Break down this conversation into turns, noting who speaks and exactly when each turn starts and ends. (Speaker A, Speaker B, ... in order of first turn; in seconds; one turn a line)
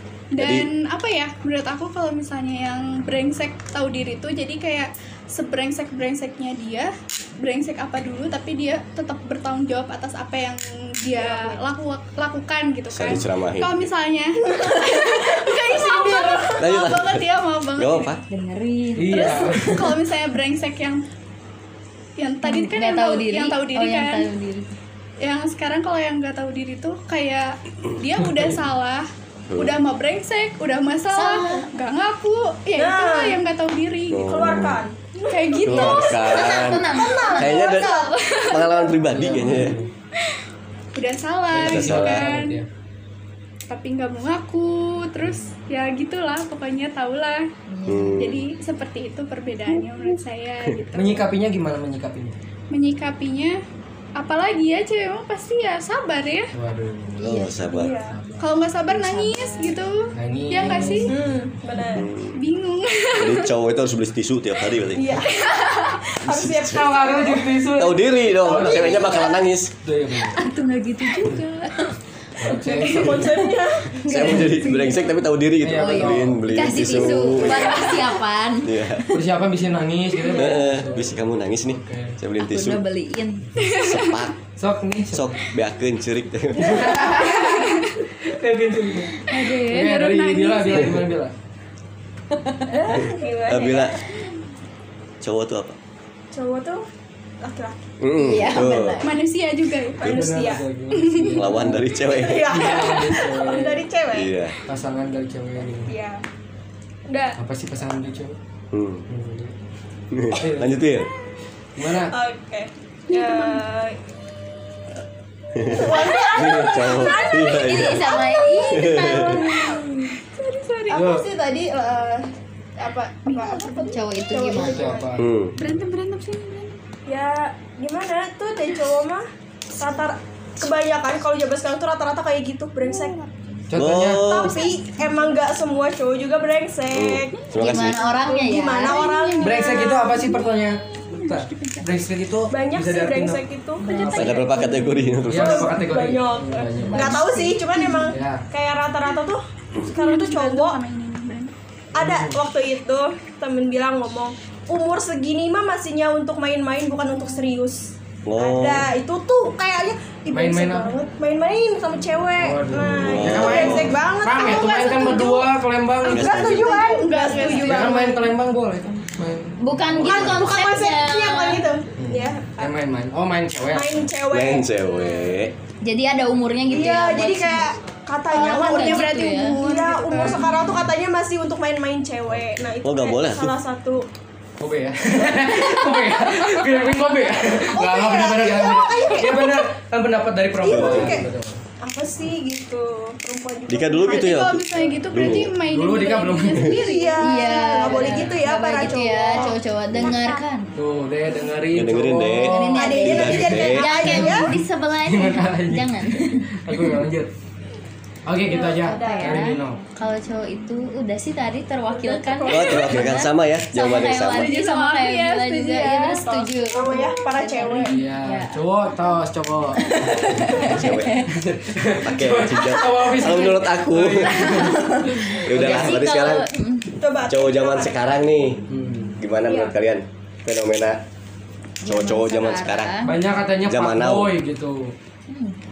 Speaker A: 0.3-18.2
Speaker B: 0.4-0.7
Speaker C: 11.1-11.6
Speaker B: 12.9-13.9
Speaker C: 14.5-16.6
Speaker D: 16.0-16.3
Speaker B: 16.6-18.2
Speaker D: 18.3-19.7
Speaker E: 19.0-19.9
Speaker A: 19.1-21.0
Speaker A: 22.2-24.3
Speaker D: 22.4-24.8
Speaker A: 25.2-34.4
Speaker B: 29.5-29.8
Speaker D: 31.1-31.7
Speaker C: 31.3-31.6
Speaker C: 32.8-33.4
Speaker B: 34.1-34.8
Speaker C: 34.1-38.1
Speaker A: 35.3-36.6
Speaker B: 35.7-39.8
Speaker D: 36.3-37.8
Speaker A: 37.2-38.8
Speaker E: 39.1-39.9
Speaker A: 41.0-42.6
Speaker E: 41.5-42.7
Speaker B: 41.6-42.3
Speaker A: 43.7-47.5
Speaker E: 45.2-45.5
Speaker D: 47.7-48.3
Speaker B: 47.9-48.5
Speaker A: 48.2-51.3
Speaker E: 50.9-52.4
Speaker A: 52.7-53.6
Speaker A: 54.2-56.5
Speaker E: 56.5-58.5
Speaker B: 57.2-57.9
Speaker D: 57.2-57.9
Speaker C: 57.7-58.2
Speaker A: 58.4-61.1
Speaker D: 58.9-59.8
Speaker E: 60.1-61.4
Speaker C: 61.0-62.1
Speaker B: 61.9-62.4
Speaker A: 62.4-63.5
Speaker B: 63.1-65.3
Speaker C: 64.9-67.6
Speaker A: 65.5-65.9
Speaker B: 66.2-66.9
Speaker E: 66.6-69.0
Speaker B: 67.7-69.7
Speaker D: 68.5-69.4
Speaker E: 69.8-70.4
Speaker D: 70.3-72.0
Speaker E: 72.4-73.4
Speaker C: 72.6-75.2
Speaker B: 74.0-78.0
Speaker D: 74.0-74.6
Speaker E: 75.6-76.5
Speaker D: 75.7-79.1
Speaker B: 78.6-79.0
Speaker E: 79.1-82.2
Speaker C: 80.2-80.8
Speaker B: 80.3-82.8
Speaker D: 82.4-83.5
Speaker A: 83.6-84.2
Speaker B: 83.7-84.3
Speaker E: 84.6-85.3
Speaker B: 85.1-87.1
Speaker E: 86.6-87.6
Speaker A: 87.2-88.0
Speaker E: 88.2-91.3
Speaker D: 89.3-90.3
Speaker A: 89.9-91.0
Speaker D: 92.3-93.0
Speaker C: 92.8-94.0
Speaker B: 93.5-94.0
Speaker B: 95.2-95.8
Speaker C: 96.3-96.8
Speaker C: 97.4-97.8
Speaker B: 98.0-99.0
Speaker D: 98.2-99.2
Speaker A: 99.0-100.1
Speaker C: 100.0-100.6
Speaker E: 100.0-103.8
Speaker A: 100.9-101.4
Speaker B: 101.4-102.9
Speaker C: 102.1-104.3
Speaker B: 104.1-104.6
Speaker E: 104.7-106.0
Speaker C: 105.9-106.2
Speaker C: 107.1-107.4
Speaker E: 107.3-108.4
Speaker B: 108.7-109.0
Speaker E: 109.1-109.5
Speaker B: 110.1-111.1
Speaker E: 110.3-110.9
Speaker E: 111.8-112.1
Speaker C: 112.1-114.0
Speaker A: 113.1-113.6
Speaker B: 115.5-118.1
Speaker C: 115.7-122.2
Speaker D: 117.5-119.8
Speaker B: 118.7-119.5
Speaker E: 120.9-121.3
Speaker C: 122.8-125.2
Speaker A: 123.3-124.0
Speaker D: 123.3-125.0
Speaker E: 124.5-125.8
Speaker B: 125.2-125.5
Speaker A: 125.6-126.8
Speaker C: 127.1-129.3
Speaker C: 129.8-133.2
Speaker A: 132.9-133.3
Speaker E: 133.7-134.2
Speaker B: 133.8-134.6
Speaker C: 134.1-137.4
Speaker A: 134.6-135.2
Speaker B: 136.9-138.0
Speaker D: 137.5-139.4
Speaker C: 138.0-140.2
Speaker A: 138.9-141.8
Speaker E: 139.4-143.4
Speaker C: 142.5-143.9
Speaker D: 143.8-145.3
Speaker E: 143.9-144.5
Speaker B: 144.1-145.7
Speaker E: 145.2-147.2
Speaker C: 145.3-150.8
Speaker D: 146.8-148.0
Speaker A: 147.8-148.1
Speaker E: 148.1-148.4
Speaker A: 149.9-151.5
Speaker C: 151.9-165.5
Speaker E: 151.9-152.4
Speaker B: 158.2-158.9
Speaker E: 160.3-160.9
Speaker E: 162.4-166.7
Speaker B: 163.0-163.9
Speaker C: 166.0-167.9
Speaker B: 166.1-166.7
Speaker A: 166.6-168.2
Speaker D: 167.3-167.9
Speaker E: 167.6-170.5
Speaker D: 169.6-171.6
Speaker C: 170.0-172.7
Speaker E: 172.0-174.1
Speaker C: 173.7-175.4
Speaker B: 174.3-175.5
Speaker D: 175.8-177.8
Speaker C: 176.7-184.1
Speaker D: 178.3-179.6
Speaker A: 178.8-180.6
Speaker E: 180.1-180.8
Speaker B: 182.8-183.6
Speaker E: 184.6-191.6
Speaker C: 185.8-186.5
Speaker C: 187.5-189.7
Speaker C: 190.6-191.3
Speaker B: 190.7-191.2
Speaker C: 191.8-194.4
Speaker B: 193.7-195.6
Speaker A: 194.1-197.3
Speaker E: 195.1-196.8
Speaker C: 196.5-200.4
Speaker D: 197.2-200.7
Speaker E: 197.9-198.4
Speaker E: 200.8-202.7
Speaker B: 201.7-203.9
Speaker D: 202.3-207.0
Speaker C: 202.5-204.5
Speaker E: 204.0-207.3
Speaker E: 208.3-209.8
Speaker D: 208.4-218.6
Speaker C: 208.6-209.4
Speaker C: 211.9-213.2
Speaker B: 212.5-214.5
Speaker A: 214.3-216.4
Speaker C: 216.3-217.9
Speaker E: 217.8-226.0
Speaker D: 219.8-221.3
Speaker B: 220.6-221.3
Speaker B: 222.0-224.6
Speaker D: 224.4-226.9
Speaker B: 225.4-226.5
Speaker C: 227.0-228.4
Speaker B: 227.3-228.7
Speaker E: 228.7-229.2
Speaker B: 229.2-231.0
Speaker C: 229.4-229.8
Speaker D: 231.8-233.2
Speaker B: 231.8-232.9
Speaker E: 233.0-234.9
Speaker B: 233.7-234.3
Speaker D: 235.3-235.6